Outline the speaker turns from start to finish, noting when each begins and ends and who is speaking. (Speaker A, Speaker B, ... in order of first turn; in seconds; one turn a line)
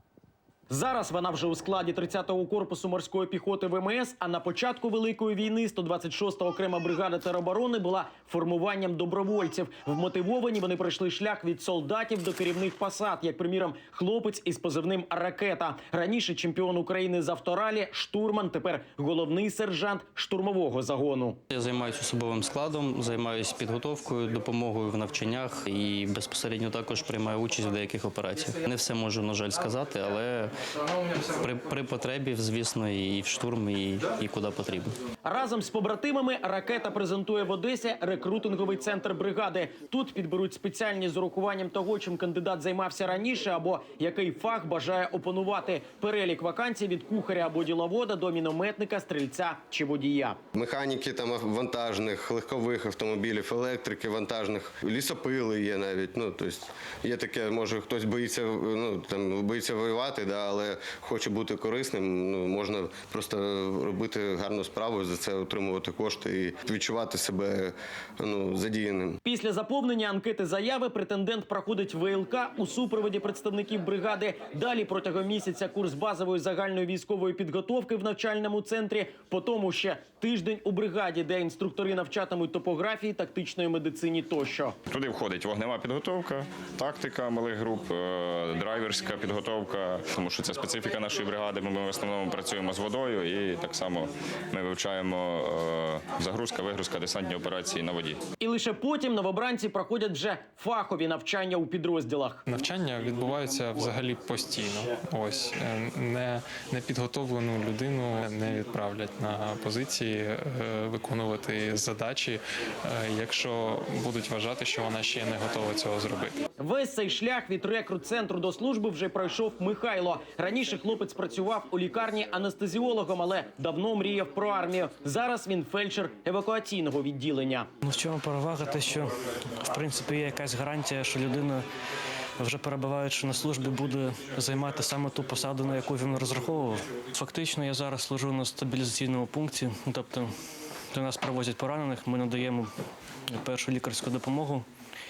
Speaker A: 0.7-21.4
Speaker B: 21.5-30.6
Speaker B: 31.4-35.0
Speaker A: 35.2-50.4
Speaker C: 50.5-69.2
Speaker A: 69.2-84.8
Speaker D: 84.9-98.2
Speaker A: 98.4-102.4
Speaker E: 102.5-116.4
Speaker A: 116.6-127.7
Speaker F: 127.8-129.1
Speaker F: 129.7-131.6
Speaker F: 132.4-140.3
Speaker F: 140.9-142.7
Speaker F: 143.3-144.7